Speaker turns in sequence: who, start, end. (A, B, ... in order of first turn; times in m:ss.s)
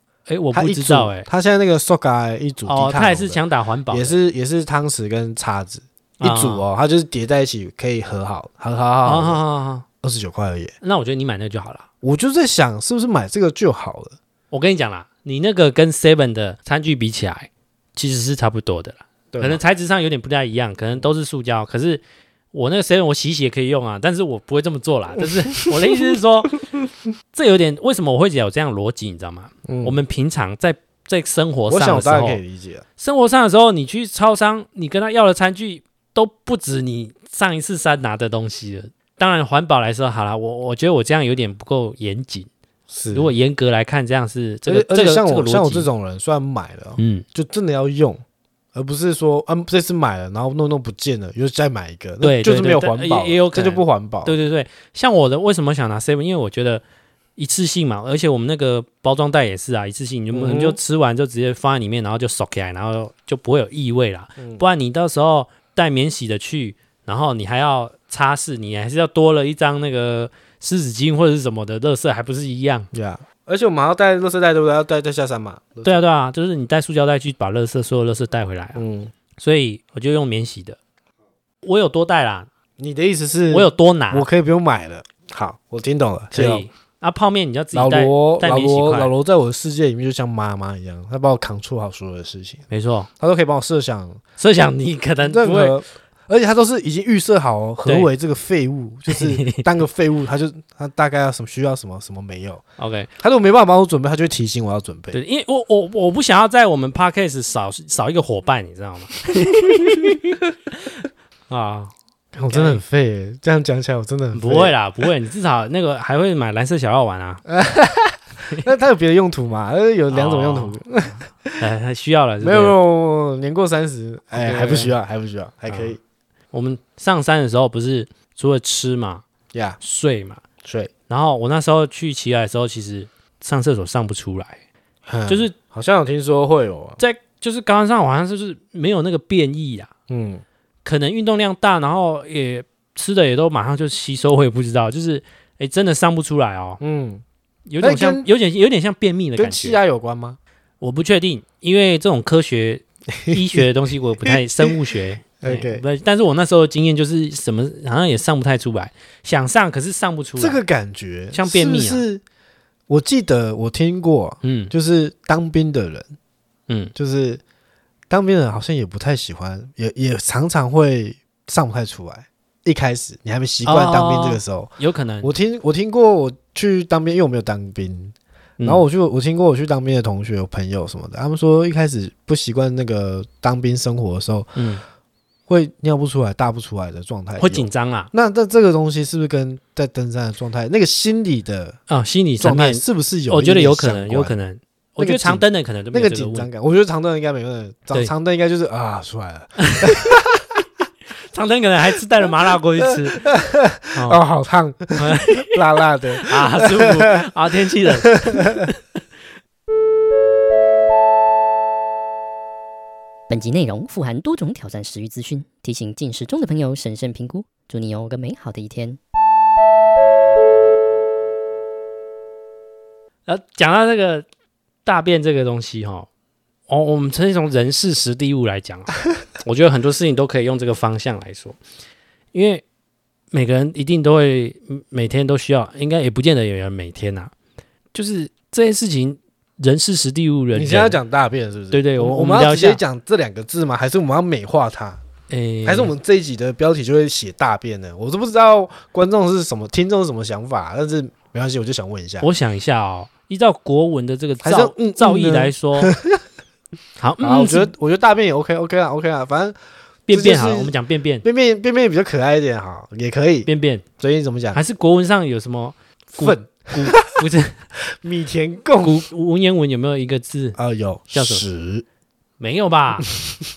0:00.3-0:01.3 A
0:00.5-0:09.4 B
0:02.6-0:04.2 A
0:06.2-0:06.6 A
0:09.0-0:09.8 A
0:10.0-0:10.7 B
0:10.8-0:11.8 A
0:12.0-0:14.2 B
0:14.5-0:26.6 A
0:19.3-0:19.6 B
0:25.5-0:26.2 B
0:27.3-0:32.4 A
0:29.6-0:30.0 B
0:31.7-0:32.8 B
0:33.0-0:42.5 A
0:42.9-0:43.3 B
0:43.1-0:45.9 A
0:44.7-0:48.2 B
0:47.0-0:47.2 A
0:48.7-0:54.4 B
0:52.2-0:56.8 A
0:57.4-1:12.9 A
1:00.3-1:00.8 B
1:04.4-1:04.6 B
1:12.9-1:16.0 B
1:15.8-1:18.8 A
1:18.8-1:19.1 B
1:19.4-1:20.8 A
1:21.6-1:22.5 A
1:22.8-1:26.6 B
1:23.5-1:24.3 A
1:26.3-1:29.1 A
1:27.7-1:32.6 B
1:32.7-1:33.1 A
1:33.2-1:34.2 B
1:34.4-1:35.8 A
1:35.2-1:42.6 B
1:37.8-1:38.1 A
1:39.1-1:39.6 A
1:42.8-1:43.1 A
1:43.2-1:45.2 B
1:45.1-1:50.4 A
1:51.5-1:51.9 A
1:52.3-1:54.7 B
1:52.5-1:52.8 A
1:54.3-1:57.4 A
1:57.4-2:01.6 B
2:00.1-2:00.8 A
2:01.6-2:02.8 A
2:02.4-2:06.0 B
2:04.3-2:04.9 A
2:05.7-2:05.9 A
2:06.5-2:09.2 A
2:09.5-2:09.8 B
2:09.8-2:10.4 A
2:10.6-2:10.9 B
2:11.1-2:14.6 A
2:15.0-2:17.0 B
2:15.3-2:15.5 A
2:17.0-2:19.9 A
2:20.1-2:20.4 B
2:20.8-2:26.8 A
2:26.8-2:27.2 B
2:27.7-2:29.8 A
2:27.8-2:28.2 B
2:29.4-2:30.4 B
2:30.8-2:40.6 A
2:33.2-2:33.6 B
2:34.2-2:34.8 B
2:35.4-2:35.8 B
2:40.4-2:42.2 B
2:41.3-2:42.0 A
2:42.9-2:46.1 B
2:44.4-2:44.7 A
2:46.9-2:47.4 B
2:48.1-3:04.5 B
2:53.6-2:55.3 A
2:58.6-2:58.8 A
3:04.6-3:04.8 A
3:05.5-3:11.8 B
3:07.4-3:08.1 A
3:11.9-3:16.5 A
3:12.4-3:14.3 B
3:15.0-3:20.4 B
3:19.6-3:20.1 A
3:21.3-3:23.3 A
3:22.9-3:27.2 B
3:23.9-3:24.2 A
3:25.0-3:25.6 A
3:26.2-3:28.8 A
3:28.1-3:28.6 B
3:33.3-3:39.0 C
3:43.2-3:44.2 A
3:44.8-3:46.1 A
3:46.7-3:51.6 A
3:52.3-3:52.6 A
3:53.3-3:57.3 A
3:57.9-4:01.0 A
4:00.5-4:05.0 B
4:01.7-4:02.8 A
4:05.3-4:05.9 A
4:05.6-4:12.3 B
4:12.2-4:15.9 A
4:14.4-4:16.2 B
4:17.0-4:17.7 A
4:17.2-4:19.6 B
4:20.1-4:21.2 A
4:20.1-4:24.6 B
4:23.4-4:23.8 A
4:24.5-4:27.6 A
4:26.2-4:27.2 B
4:27.9-4:29.0 B
4:28.8-4:30.6 A
4:30.6-4:31.8 B
4:31.1-4:31.4 A
4:32.4-4:33.1 A